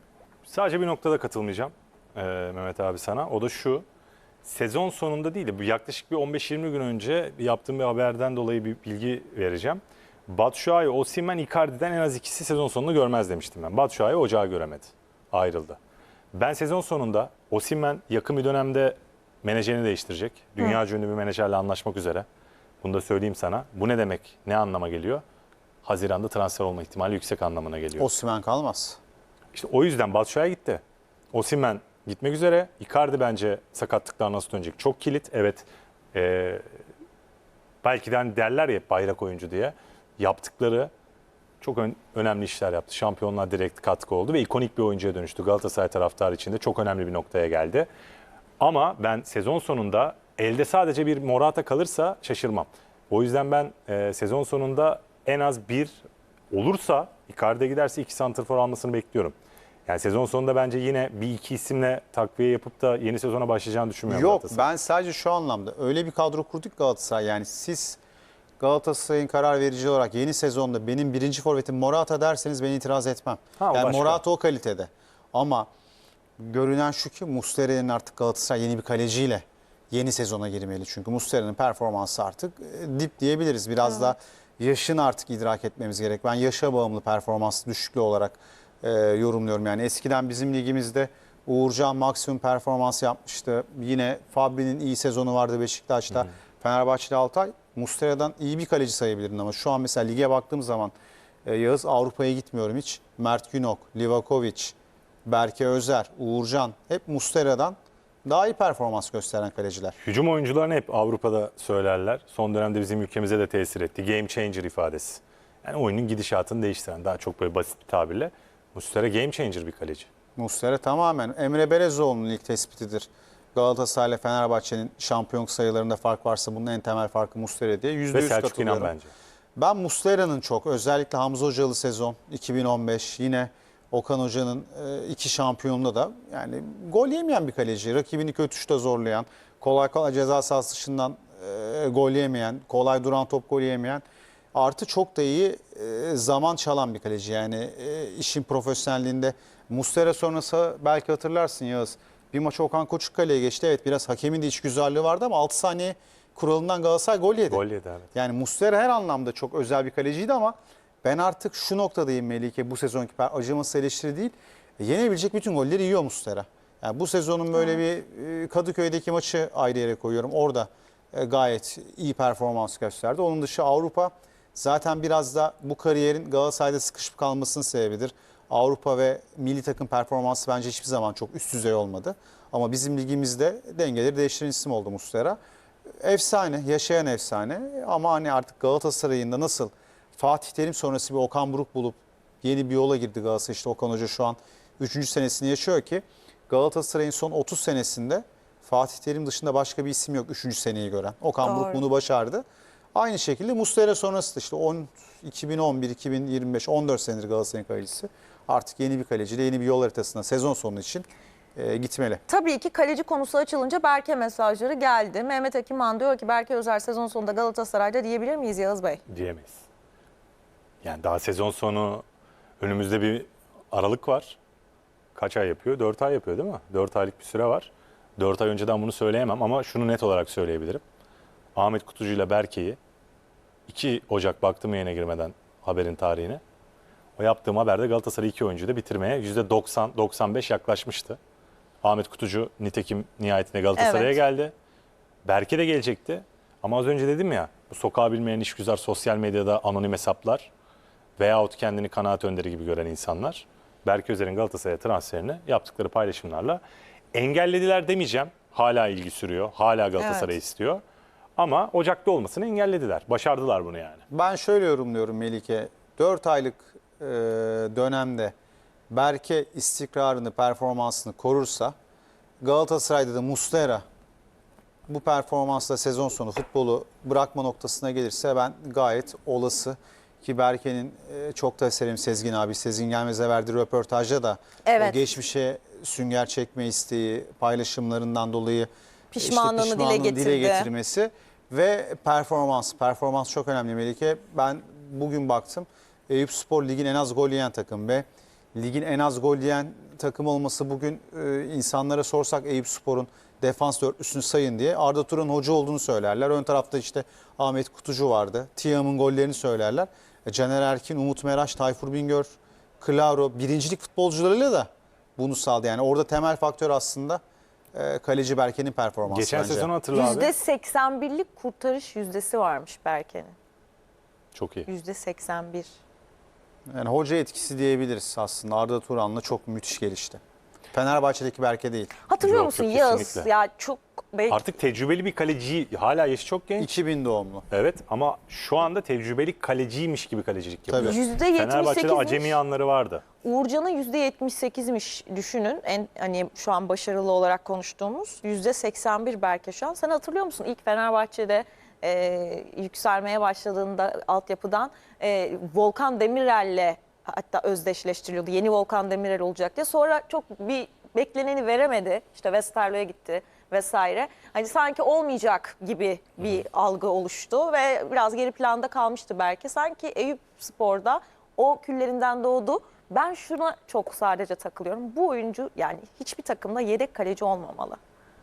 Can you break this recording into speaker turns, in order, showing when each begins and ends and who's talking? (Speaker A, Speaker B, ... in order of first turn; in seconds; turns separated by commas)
Speaker A: 0.5-3.9, Speaker A: 4.4-15.8, Speaker A: 16.3-22.2, Speaker A: 22.8-25.2, Speaker A: 25.8-28.1, Speaker B: 28.0-29.0, Speaker A: 29.5-30.8, Speaker A: 31.3-36.6, Speaker A: 37.8-40.9, Speaker A: 41.6-47.9, Speaker A: 48.6-59.3, Speaker A: 59.9-64.7, Speaker B: 64.1-68.0, Speaker B: 68.6-75.7, Speaker A: 73.6-74.2, Speaker B: 76.4-100.9, Speaker B: 101.5-110.0, Speaker A: 110.0-120.1, Speaker B: 120.4-128.9, Speaker A: 128.1-129.1, Speaker B: 129.6-144.0, Speaker B: 144.5-185.4, Speaker A: 157.5-158.1, Speaker B: 186.0-202.4, Speaker C: 201.4-201.8, Speaker B: 202.9-212.2, Speaker C: 212.3-219.0, Speaker A: 219.1-219.6, Speaker A: 220.8-222.0, Speaker A: 222.6-224.4, Speaker A: 225.1-230.8, Speaker A: 231.6-232.8, Speaker A: 233.7-236.4, Speaker A: 237.2-241.2, Speaker A: 241.8-244.5, Speaker C: 243.8-244.2, Speaker A: 245.2-250.5, Speaker A: 251.2-256.6, Speaker A: 257.1-260.8, Speaker C: 260.0-260.3, Speaker A: 261.4-264.0, Speaker B: 264.1-268.4, Speaker B: 268.9-271.7, Speaker B: 272.4-273.8, Speaker B: 274.9-317.2, Speaker C: 284.6-285.0, Speaker C: 289.1-290.7, Speaker B: 317.7-319.7, Speaker A: 319.1-320.3, Speaker C: 319.9-323.4, Speaker A: 324.4-324.7, Speaker C: 324.7-325.7, Speaker B: 326.7-330.2, Speaker B: 330.7-331.9, Speaker C: 332.1-334.4, Speaker A: 332.2-333.3, Speaker A: 334.3-336.8, Speaker B: 336.6-337.5, Speaker A: 337.5-343.1, Speaker B: 340.7-341.0, Speaker C: 340.8-342.4, Speaker C: 343.2-377.8